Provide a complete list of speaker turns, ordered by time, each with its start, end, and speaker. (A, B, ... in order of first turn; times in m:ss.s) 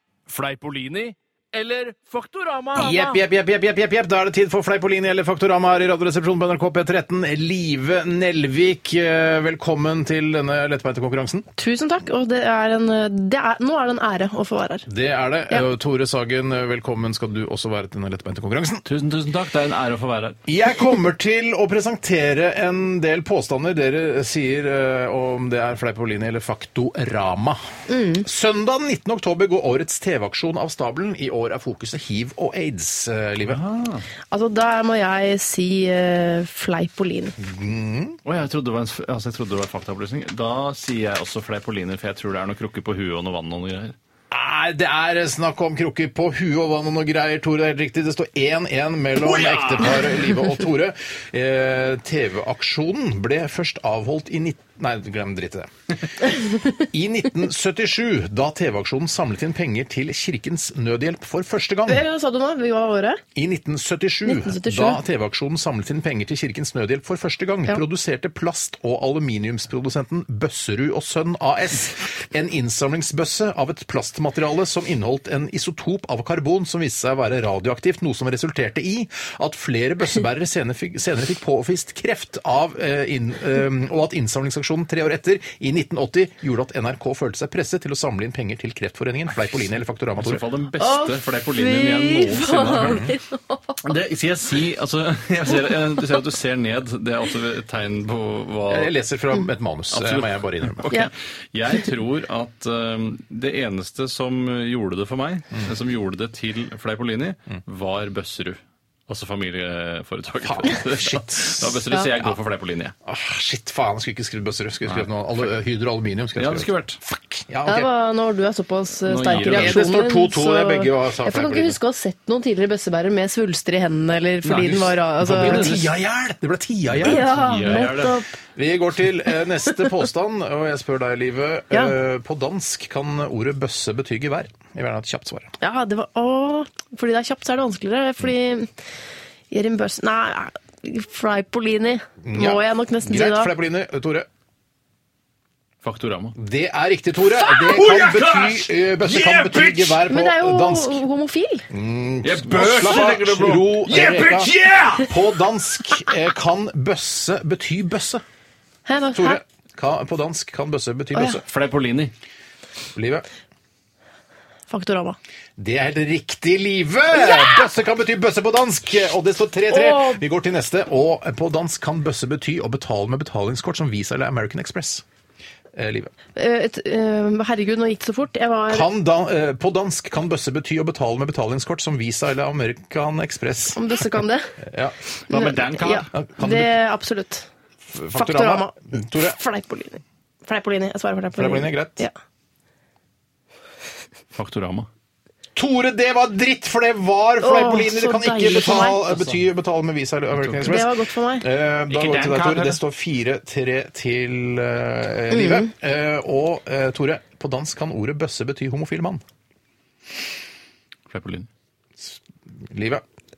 0:00.3-0:03.1 A
0:02.8-0:11.5 B
0:11.6-0:14.9 C
0:14.9-0:18.8 B
0:18.9-0:20.4 A
0:20.5-0:27.6 B
0:27.9-0:28.3 C
0:28.2-0:33.6 B
0:33.5-0:34.1 A
0:34.3-0:37.4 C
0:37.4-0:38.2 B
0:38.2-0:44.0 A
0:44.3-0:55.7 B
0:49.2-0:50.0 A
0:56.7-1:02.0 B
1:01.9-1:03.2 C
1:03.4-1:30.4 B
1:04.3-1:05.0 C
1:30.2-1:33.0 A
1:30.8-1:33.8 C
1:32.8-1:33.1 B
1:33.8-1:39.0 A
1:38.7-1:41.0 B
1:39.9-1:52.9 A
1:50.4-1:51.8 B
1:53.0-1:57.9 B
1:56.4-1:57.0 A
1:57.7-2:05.8 C
1:59.0-1:59.8 A
1:59.4-2:01.8 B
2:04.4-2:05.9 A
2:04.5-2:07.9 B
2:06.9-2:08.2 A
2:07.0-2:08.3 C
2:08.6-2:15.5 B
2:15.6-2:18.7 C
2:19.5-2:23.5 C
2:22.2-2:24.3 B
2:25.8-2:26.4 A
2:26.4-2:31.0 B
2:27.4-2:30.0 A
2:30.1-2:31.7 C
2:31.7-2:38.2 B
2:32.2-2:35.1 A
2:38.9-2:39.4 C
2:39.2-2:41.4 B
2:41.5-2:42.1 A
2:43.0-2:43.3 B
2:44.7-2:45.2 C
2:45.6-2:55.0 B
2:49.7-2:50.2 C
2:55.7-2:56.1 B
2:56.4-2:58.9 C
2:58.7-3:04.0 B
3:03.7-3:04.6 C
3:04.6-3:05.0 B
3:05.3-3:06.1 A
3:05.3-3:07.5 C
3:06.1-3:06.7 B
3:07.9-3:09.4 B
3:08.2-3:12.1 C
3:11.3-3:12.0 B
3:14.4-3:14.9 A
3:15.6-3:29.2 B
3:17.4-3:19.0 C
3:19.0-3:19.4 A
3:20.4-3:20.8 A
3:20.7-3:21.5 C
3:21.9-3:22.8 A
3:25.3-3:25.7 C
3:31.1-3:31.5 A
3:32.0-3:33.0 B